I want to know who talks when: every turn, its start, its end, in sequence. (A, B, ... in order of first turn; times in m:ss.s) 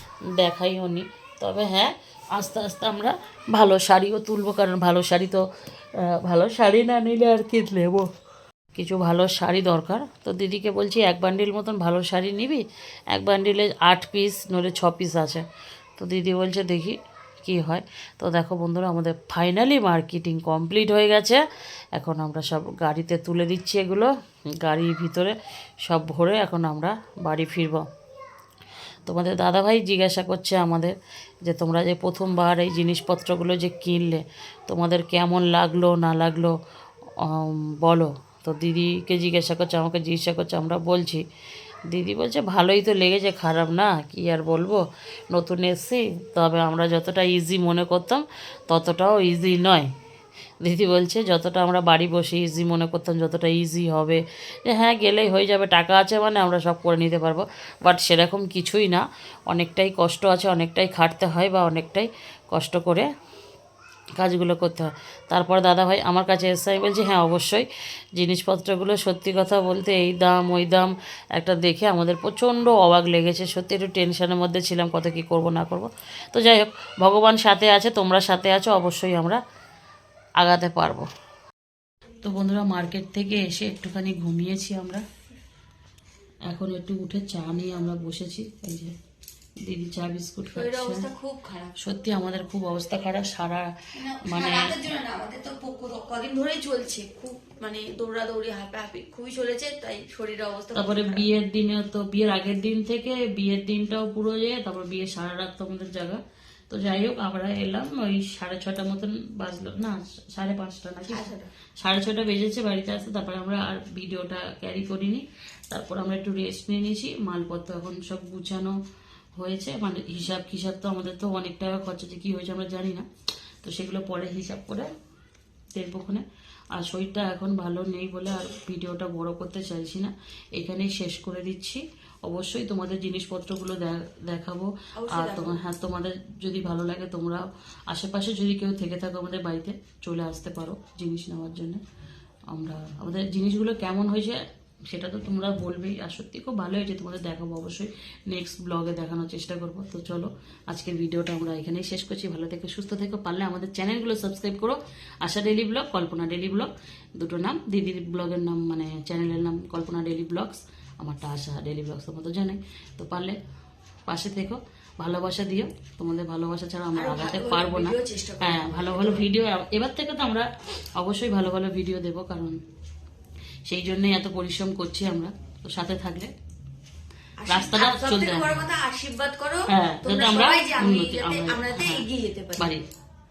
0:00.4-0:05.4 A
0:06.0-0:08.1 A
0:08.8-0:15.4 A
0:16.0-0:21.4 A
0:22.0-0:27.8 A
0:29.0-0:36.5 A
0:37.2-0:41.2 A
0:41.9-0:49.9 A
0:50.6-1:03.1 A
1:04.2-1:19.4 A
1:20.4-1:21.1 A
1:22.2-1:25.0 A
1:26.5-1:28.9 A
1:29.6-1:31.1 A
1:30.5-1:31.8 B
1:31.8-1:34.7 A
1:34.0-1:41.3 B
1:40.7-1:58.8 A
1:51.1-1:51.5 B
1:59.4-2:03.0 A
2:03.6-2:04.9 A
2:05.7-2:21.8 A
2:14.9-2:15.6 B
2:22.5-2:43.4 A
2:44.1-2:52.6 A
2:46.9-2:49.2 B
2:53.7-2:56.3 A
2:57.4-3:02.7 B
2:57.5-2:58.6 A
2:59.7-3:02.0 A
3:02.6-3:02.8 A